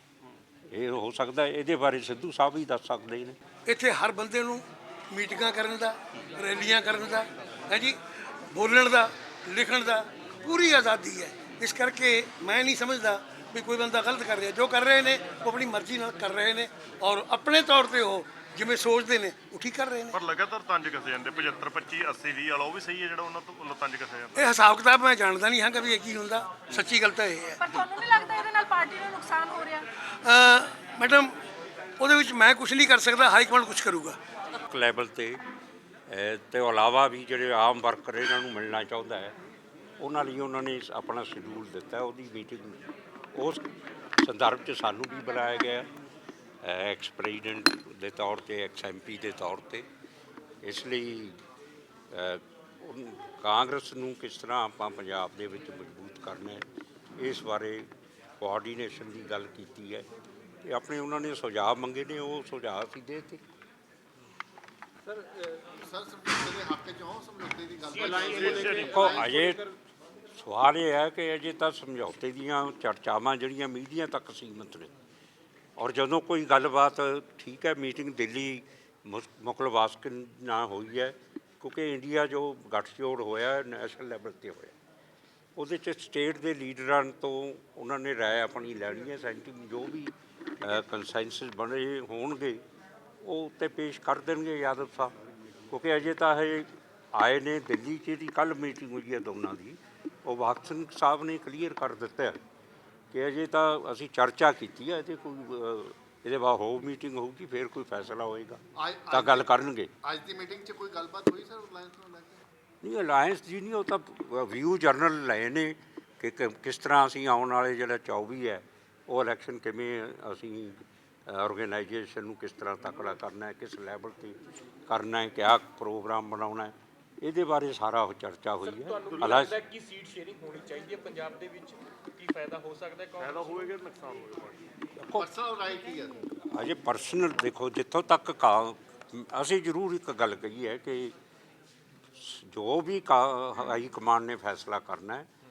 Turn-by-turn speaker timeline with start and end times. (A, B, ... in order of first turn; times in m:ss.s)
0:00.7-0:03.4 A
0:03.7-0:08.0 B
0:08.5-0:20.2 B
0:20.1-0:24.4 C
0:24.3-0:27.6 B
0:27.6-0:29.8 D
0:30.2-0:31.3 B
0:32.0-0:34.2 B
0:34.6-0:35.4 A
0:36.1-0:39.3 A
0:40.0-0:42.8 A
0:43.3-0:43.6 A
0:44.2-0:45.9 A
0:46.6-0:49.8 A
0:50.6-0:51.4 A
0:52.1-0:56.6 A
0:57.2-0:57.9 A
0:58.4-1:00.1 A
1:00.6-1:03.4 A
1:05.8-1:09.3 E
1:07.8-1:09.7 F
1:08.3-1:08.8 C
1:08.7-1:09.6 A
1:10.4-1:14.9 A
1:15.8-1:24.7 A
1:25.6-1:32.6 A
1:33.2-1:35.1 A
1:35.7-1:42.4 A
1:43.1-1:49.9 A
1:48.8-1:49.5 E
1:50.0-1:52.4 E
1:52.8-2:09.5 A
2:08.6-2:13.8 F
2:13.2-2:14.6 C
2:15.0-2:15.4 A
2:15.2-2:16.1 E
2:16.5-2:21.1 A
2:22.2-2:25.3 A